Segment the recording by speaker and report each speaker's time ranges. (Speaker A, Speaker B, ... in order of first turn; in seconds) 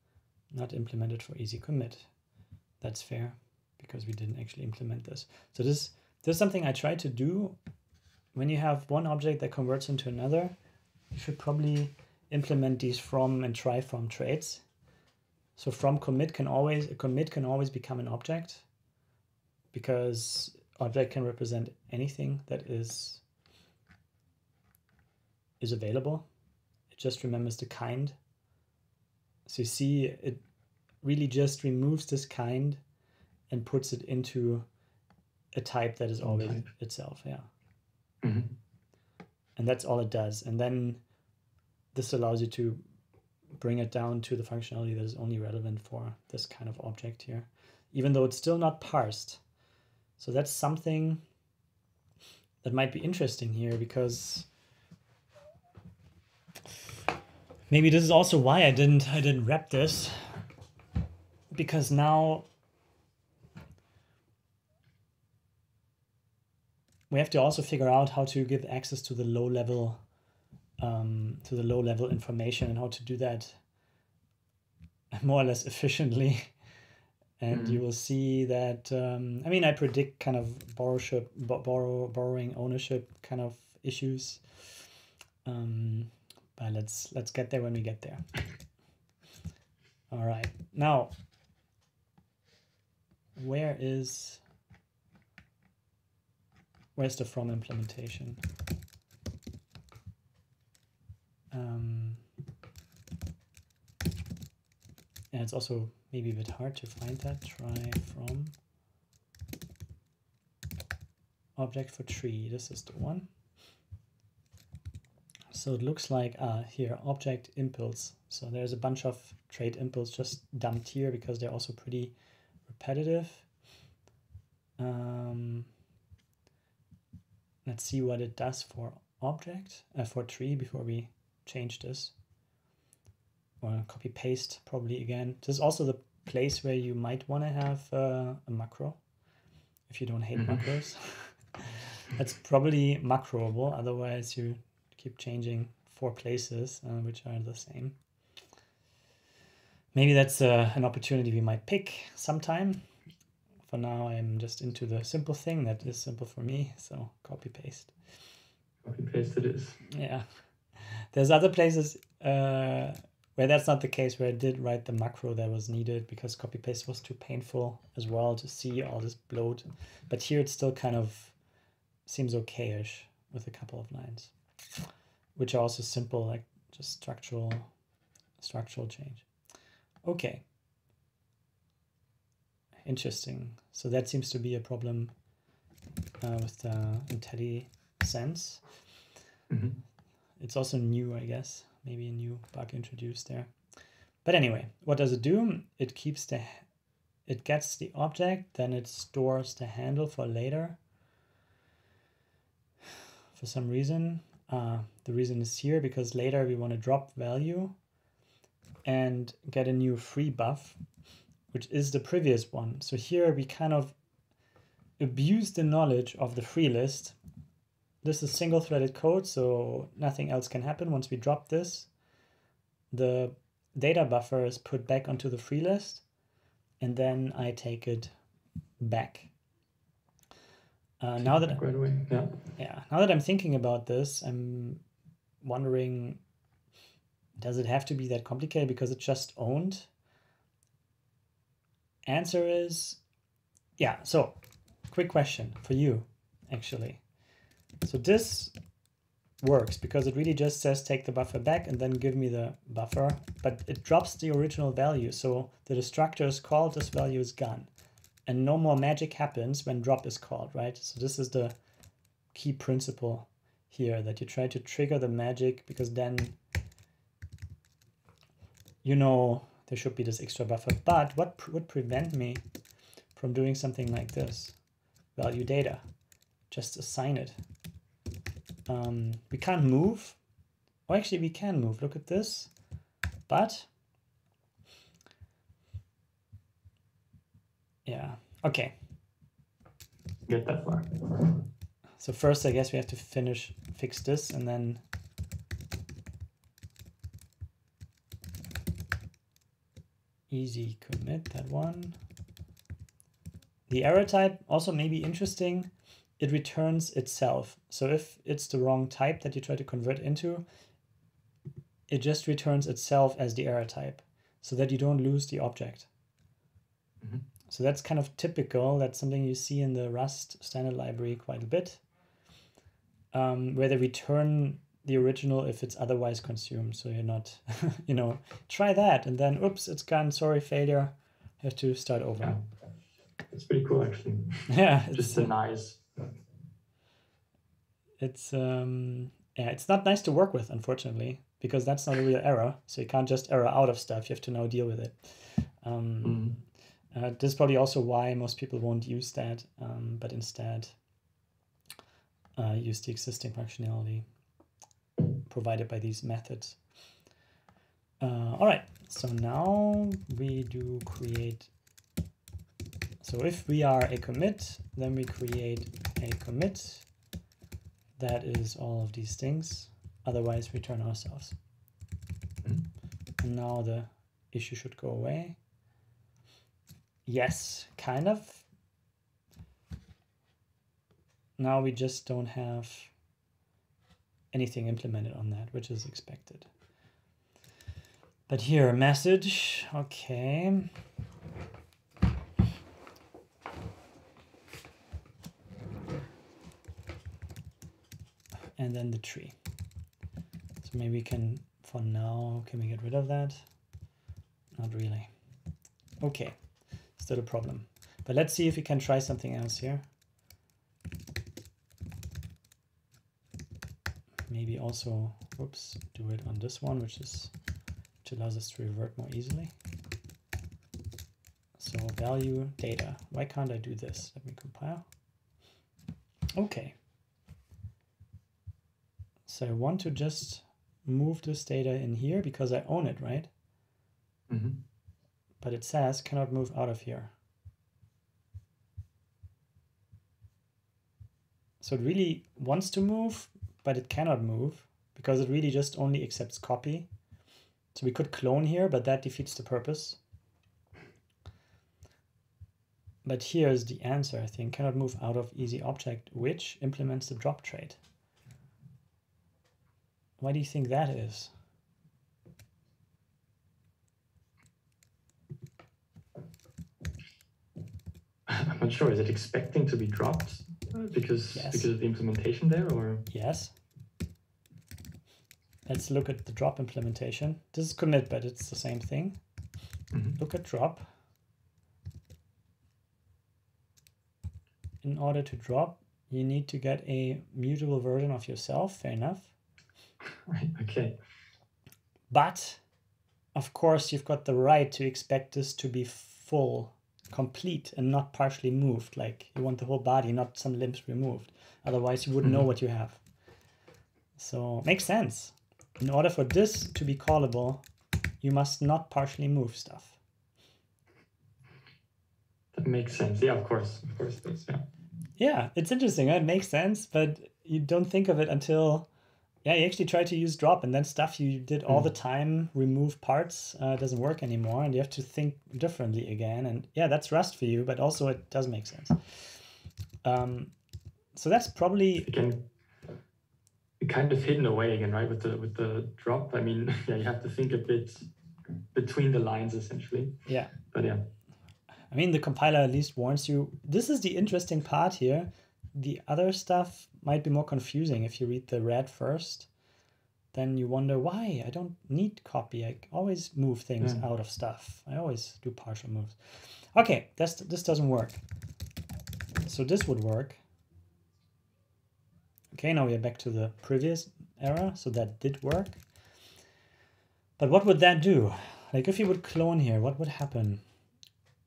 Speaker A: 0.5-2.1, 2.8-7.6, 8.3-10.5, 11.1-14.6, 15.6-18.6, 19.7-23.2, 25.6-26.2, 26.9-28.1, 29.4-30.4, 31.0-32.8, 33.5-34.6, 35.5-37.5, 39.6-41.0, 41.9-42.8, 43.6-49.4, 50.2-51.2, 52.6-54.5, 57.7-60.3, 61.5-62.5, 67.1-70.0, 70.8-73.6, 75.1-76.5, 77.4-84.6, 85.4-88.2, 90.1-91.1, 93.4-94.4, 97.0-98.4, 101.5-102.2, 105.3-108.5, 111.6-113.3, 115.5-122.1, 122.7-123.5, 124.8-125.7, 127.7-132.1, 133.6-139.0, 139.9-147.9, 149.9-152.8, 153.7-157.9, 159.9-160.2, 161.1-171.3, 172.1-174.3, 175.3-177.7, 178.4-179.2, 180.0-180.4, 182.8-185.1, 186.2-188.6, 190.4-193.5, 194.2-196.7, 197.3-200.8, 203.3-207.7, 208.8-210.8, 211.5-213.9, 215.0-217.2, 218.0-221.9, 222.9-226.0, 226.8-228.1, 228.8-229.3, 231.0-231.6, 232.6-234.8, 235.4-236.2, 237.4-239.9, 242.1-243.0, 243.8-244.3, 244.9-247.0, 247.8-248.5, 249.4-257.7, 258.3-261.5, 262.3-266.4, 268.8-272.4, 273.1-274.5, 275.1-275.8, 276.5-277.4, 278.7-280.2, 280.9-282.5, 283.3-283.7, 287.9-288.7, 292.0-294.8, 300.3-301.9, 303.7-310.4, 311.9-315.9, 317.5-321.8, 323.1-332.4, 334.5-335.3, 338.0-346.4, 346.9-350.8, 352.4-354.1, 355.2-356.6, 358.0-361.5, 363.0-366.9, 368.0-371.3, 373.2-375.4, 377.1-378.4, 381.4-382.9, 384.3-386.5, 388.3-390.7, 398.6-399.3, 400.6-403.4, 404.6-405.1, 406.0-406.4, 407.0-409.8, 414.3-417.3, 418.0-419.5, 421.6-424.8, 426.4-426.8, 429.3-433.3, 435.4-437.1, 441.6-446.9, 447.7-450.0, 453.0-457.8, 460.2-461.3, 471.3-471.7, 473.1-473.5, 475.7-479.2, 480.2-480.9, 484.8-489.3, 492.1-492.6, 493.3-503.0, 504.2-507.6, 508.2-510.0, 515.2-518.9, 519.4-529.2, 530.0-530.5, 531.1-532.1, 540.3-540.5, 541.9-549.5, 550.3-558.2, 559.4-560.4, 562.5-565.8, 567.4-570.6
Speaker B: 36.2-36.6, 38.2-38.5, 77.5-77.8, 140.3-140.6, 158.8-159.8, 189.5-189.8, 231.2-232.4, 290.2-291.4, 333.3-336.1, 346.0-346.4, 372.4-372.7, 434.3-434.6, 468.3-473.1, 479.9-480.2, 490.1-491.0, 512.5-514.7, 532.0-532.5, 533.8-538.1, 538.7-541.1